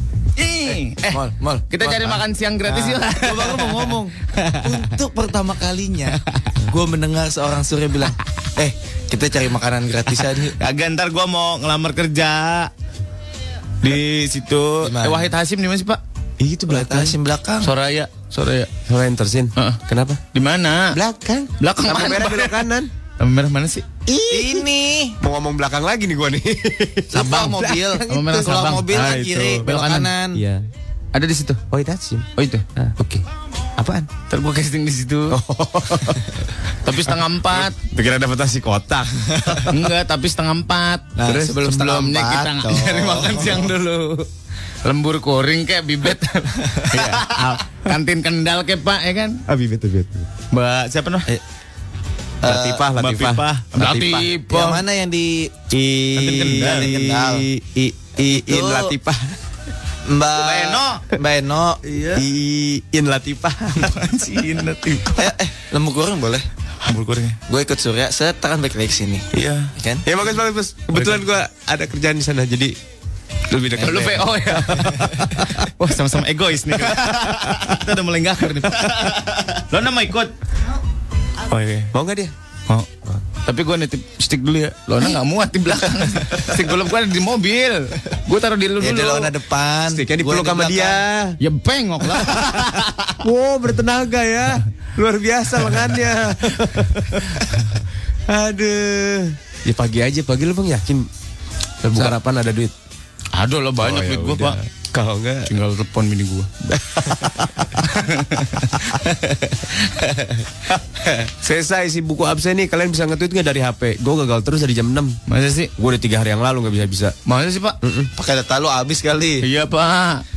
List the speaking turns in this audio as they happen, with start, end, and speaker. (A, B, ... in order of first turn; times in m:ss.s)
0:00.4-0:03.9 A
0:01.1-0:10.6 B
0:10.6-0:12.7 A
0:13.8-0:16.0 A
0:14.8-0:15.3 B
0:16.4-0:17.2 C
0:16.7-0:17.7 B
0:17.6-0:18.7 A
0:18.9-0:20.2 C
0:20.3-0:21.0 A
0:20.9-0:22.9 C
0:21.6-0:22.6 A
0:23.2-0:24.0 A
0:24.1-0:24.7 C
0:24.3-0:25.2 B
0:25.2-0:29.6 C
0:27.1-0:30.4 B
0:28.1-0:30.1 A
0:30.3-0:30.7 C
0:31.1-0:31.6 A
0:31.7-0:33.0 C
0:32.4-0:33.2 A
0:33.8-0:34.1 C
0:34.3-0:35.4 A
0:35.3-0:36.4 C
0:36.8-0:37.8 A
0:37.2-0:39.9 C
0:39.7-0:44.3 A
0:41.2-0:43.7 B
0:41.2-0:41.6 C
0:44.8-0:49.4 A
0:49.5-0:50.3 C
0:50.5-0:51.3 A
0:52.4-0:52.9 B
0:52.4-0:54.2 C
0:53.0-0:54.8 A
0:53.8-0:57.5 B
0:55.7-0:59.4 C
0:56.2-0:56.9 A
0:58.2-0:58.9 B
1:00.0-1:01.8 B
1:00.4-1:01.0 A
1:01.9-1:02.2 A
1:02.1-1:03.9 C
1:03.8-1:05.3 A
1:05.2-1:06.5 B
1:06.8-1:07.4 A
1:07.5-1:10.0 B
1:09.3-1:09.7 A
1:10.0-1:12.8 C
1:10.9-1:11.2 A
1:13.5-1:15.6 C
1:13.8-1:20.3 A
1:17.0-1:17.8 C
1:21.5-1:22.3 C
1:21.5-1:21.9 A
1:23.4-1:29.3 A
1:28.8-1:31.0 B
1:29.9-1:31.4 C
1:31.4-1:33.1 A
1:33.2-1:41.1 C
1:41.8-1:42.7 C
1:43.3-1:44.6 A
1:43.8-1:45.5 C
1:45.4-1:50.4 A
1:47.0-1:47.8 C
1:51.4-1:55.2 C
1:55.3-1:55.7 A
1:55.8-1:57.1 C
1:57.2-1:57.8 A
1:57.8-1:58.1 C
1:58.2-1:59.4 B
1:59.4-2:00.2 A